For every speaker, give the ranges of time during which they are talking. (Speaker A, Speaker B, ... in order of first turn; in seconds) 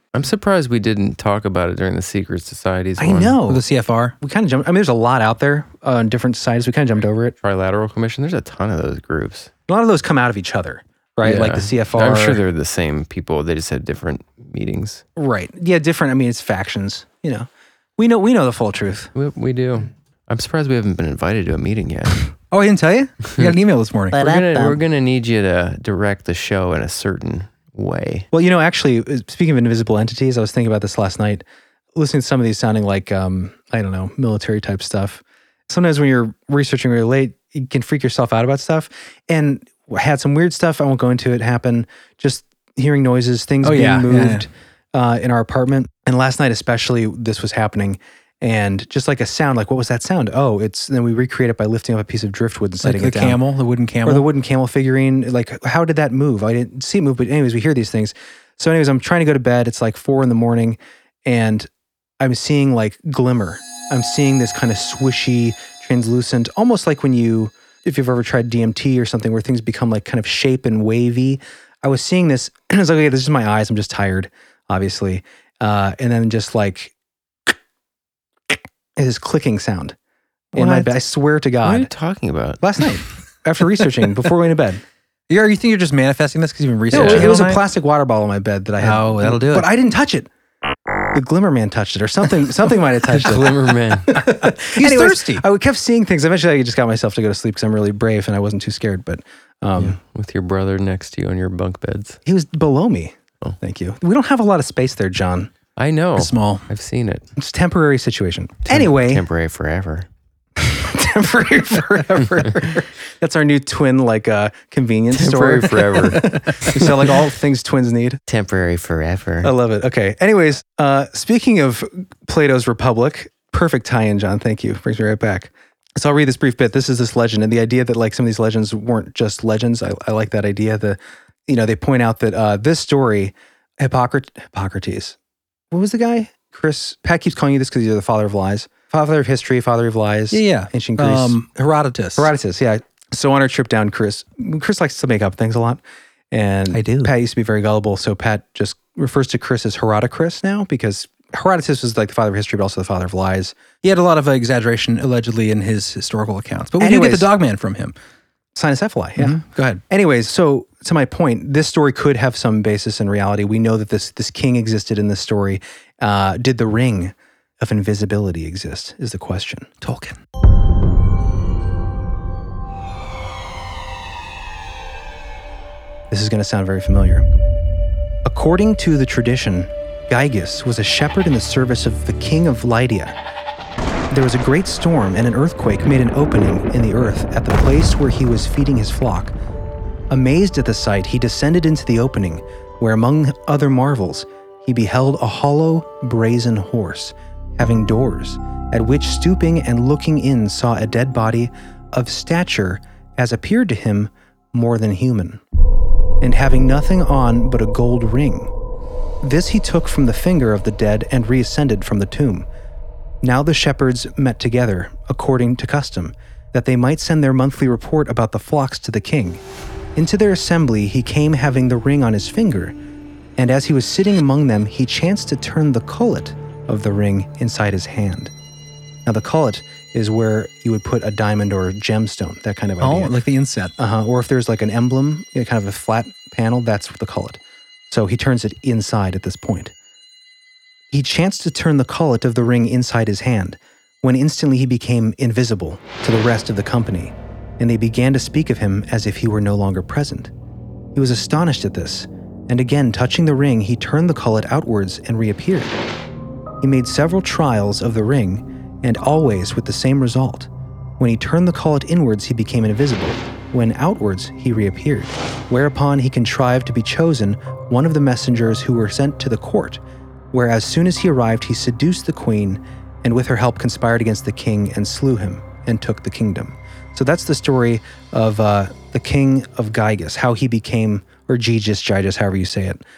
Speaker A: 0.1-3.4, 7.4-9.5, 11.2-15.0, 19.1-22.2, 24.1-28.3, 81.6-82.6, 86.9-87.2, 93.1-94.2, 99.8-102.2, 105.8-107.3, 108.6-110.1, 115.1-116.3, 118.3-119.5
Speaker B: 3.0-3.6, 4.2-7.3, 9.7-12.4, 15.2-19.1, 24.2-24.8, 28.3-31.4, 31.9-53.4, 54.0-61.7, 62.2-76.9, 79.0-80.0, 80.5-81.9, 82.6-84.8, 86.9-90.3, 91.1-100.0, 102.2-105.5, 107.4-109.2, 110.6-118.2, 119.4-135.2, 135.7-141.4, 142.2-153.6, 156.8-157.3, 158.5-169.7, 176.1-177.2, 178.2-183.1, 184.1-189.3, 190.1-205.4, 206.2-208.5, 209.2-212.5, 213.2-219.4, 219.9-222.8, 223.4-228.3, 229.1-233.1, 233.8-239.7, 240.9-250.3, 250.9-255.8, 256.6-282.8
Speaker C: 3.5-4.1, 22.5-24.2, 43.6-44.5, 52.8-54.3, 80.5-80.9, 85.3-87.6, 88.8-89.7, 94.1-95.4, 106.2-106.6, 116.2-116.8, 140.3-142.3, 146.7-147.1, 153.8-157.9, 159.2-159.8, 169.8-170.2, 232.8-233.7